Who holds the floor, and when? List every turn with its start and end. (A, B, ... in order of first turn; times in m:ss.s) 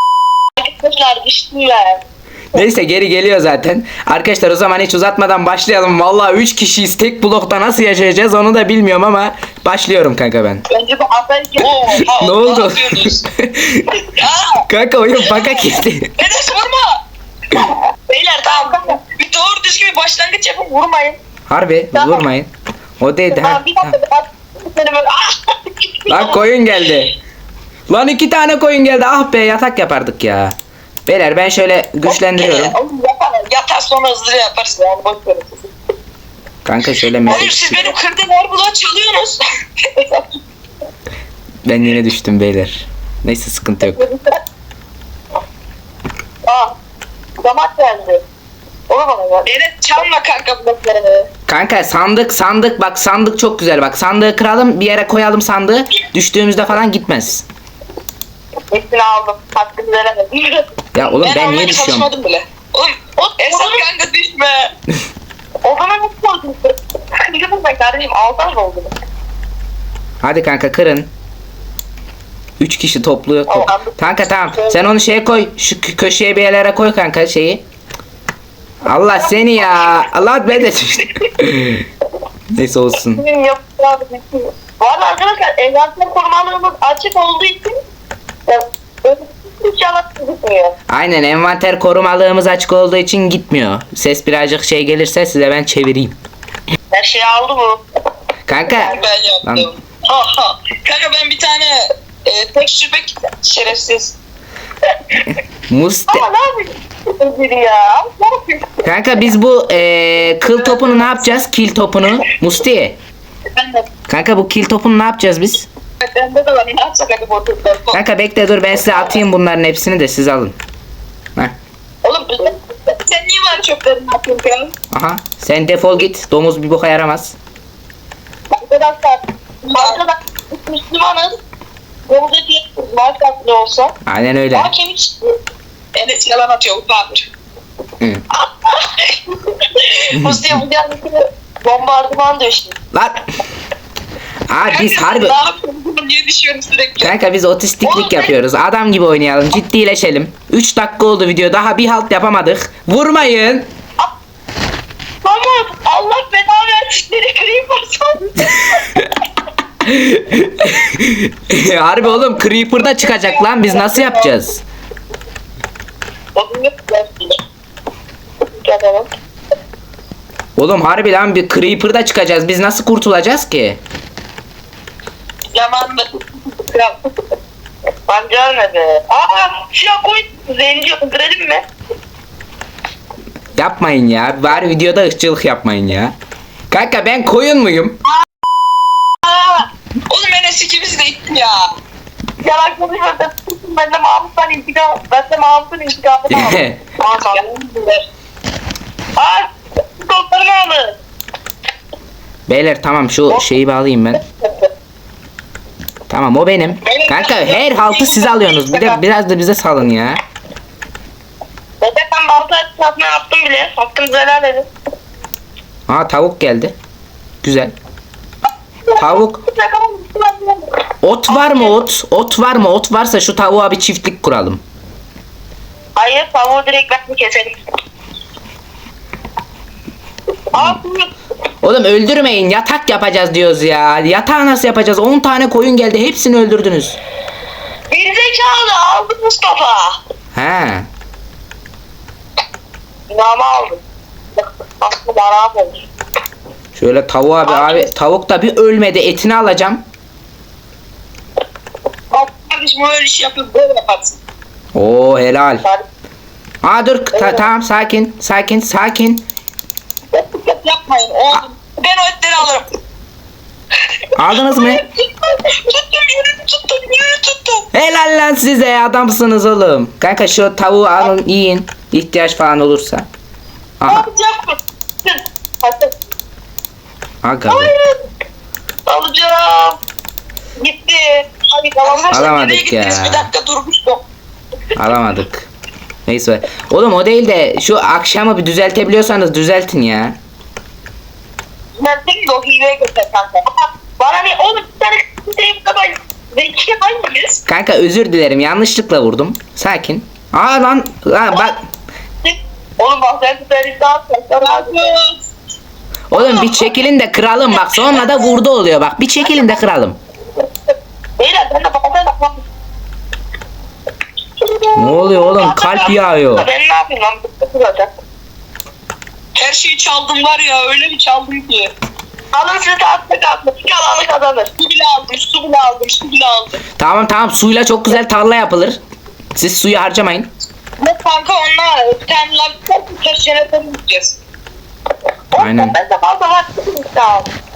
0:00.6-0:02.0 A
0:02.5-0:10.6 B
0:10.7-0:13.2 C
0:12.1-0:14.1 B
0:14.2-0:17.0 C
0:14.7-0:16.1 B
0:17.5-0:19.0 A
0:18.4-0:21.2 C
0:21.5-0:23.9 B
0:21.9-0:22.2 A
0:23.3-0:26.4 A
0:26.1-0:27.2 B
0:27.9-0:30.6 B
0:31.1-0:32.8 B
0:32.0-0:35.6 C
0:36.6-0:37.8 B
0:37.3-0:40.4 C
0:41.6-0:44.0 B
0:46.5-0:46.7 A
0:47.4-0:48.2 A
0:48.9-0:49.5 A
0:49.5-0:51.3 C
0:51.5-0:57.5 B
0:58.7-1:00.7 A
1:00.9-1:02.1 B
1:01.2-1:04.7 C
1:03.2-1:03.9 A
1:05.6-1:08.9 A
1:10.2-1:11.1 B
1:12.6-1:17.6 B
1:13.5-1:14.8 A
1:18.8-1:21.9 B
1:19.2-1:20.1 A
1:22.5-1:23.2 B
1:23.1-1:27.8 A
1:28.5-1:30.8 A
1:30.9-1:36.2 B
1:36.9-1:37.8 A
1:38.5-1:39.7 B
1:38.7-1:39.1 A
1:38.8-1:44.2 C
1:45.3-1:46.2 B
1:46.1-1:48.9 A
1:48.8-1:53.0 B
1:50.6-1:51.0 A
1:53.5-1:53.9 C
1:54.1-1:55.7 B
1:56.0-1:58.0 C
1:57.9-2:00.6 B
2:02.0-2:03.0 A
2:03.0-2:04.7 C
2:04.9-2:07.4 B
2:08.5-2:10.0 C
2:09.7-2:11.4 A
2:12.1-2:14.0 A
2:14.1-2:14.7 B
2:14.5-2:15.3 A
2:16.0-2:17.3 C
2:18.3-2:22.8 A
2:20.1-2:20.4 B
2:22.9-2:23.3 B
2:24.5-2:25.4 B
2:24.6-2:27.1 C
2:27.0-2:33.7 B
2:27.8-2:28.4 A
2:35.2-2:38.8 A
2:38.6-2:39.1 B
2:39.8-2:44.6 B
2:42.0-2:44.3 A
2:46.4-2:47.4 A
2:48.6-2:49.1 A
2:50.6-2:53.8 B
2:55.5-2:57.0 C
2:58.1-3:01.7 A
3:03.6-3:06.2 B
3:06.7-3:08.0 B
3:10.1-3:11.8 C
3:12.4-3:17.4 A
3:16.3-3:16.8 B
3:17.2-3:18.0 C
3:19.2-3:20.9 A
3:22.5-3:24.2 B
3:24.4-3:24.7 A
3:26.1-3:30.2 B
3:26.9-3:27.8 C
3:27.8-3:29.0 A
3:31.8-3:34.7 A
3:35.9-3:36.8 B
3:37.4-3:37.8 B
3:38.9-3:40.7 A
3:39.0-3:39.4 B
3:41.0-3:44.6 B
3:41.3-3:41.8 A
3:46.0-3:47.6 A
3:50.5-3:51.1 A
3:51.6-3:57.0 B
3:57.9-4:00.0 A
4:00.4-4:00.9 B
4:03.1-4:03.8 A
4:04.4-4:05.9 A
4:06.8-4:09.8 B
4:07.4-4:07.9 A
4:12.1-4:14.2 C
4:14.8-4:15.6 B
4:16.6-4:19.2 B
4:17.2-4:17.5 A
4:20.4-4:22.7 C
4:24.2-4:24.8 B
4:24.3-4:25.1 A
4:25.6-4:27.7 C
4:27.7-4:33.1 B
4:33.8-4:34.1 B
4:33.8-4:36.0 A
4:37.2-4:37.8 B
4:37.5-4:38.0 A
4:38.9-4:39.8 A
4:40.6-4:42.2 A
4:41.8-4:44.0 C
4:42.1-4:43.3 B
4:44.8-4:45.5 B
4:46.1-4:50.2 B
4:51.8-4:52.6 A
4:51.9-4:53.3 C
4:53.4-4:57.4 A
4:57.5-5:01.7 B
5:02.2-5:05.0 A
5:04.4-5:05.2 C
5:06.1-5:10.0 B
5:06.2-5:06.7 A
5:07.9-5:08.2 A
5:09.3-5:09.5 A
5:11.2-5:12.4 A
5:14.4-5:17.9 A
5:14.8-5:16.4 B
5:19.4-5:21.7 C
5:22.3-5:24.5 A
5:24.6-5:26.6 C
5:26.8-5:28.8 B
5:29.4-5:30.3 B
5:30.8-5:34.2 C
5:35.3-5:37.3 A
5:35.4-5:35.8 B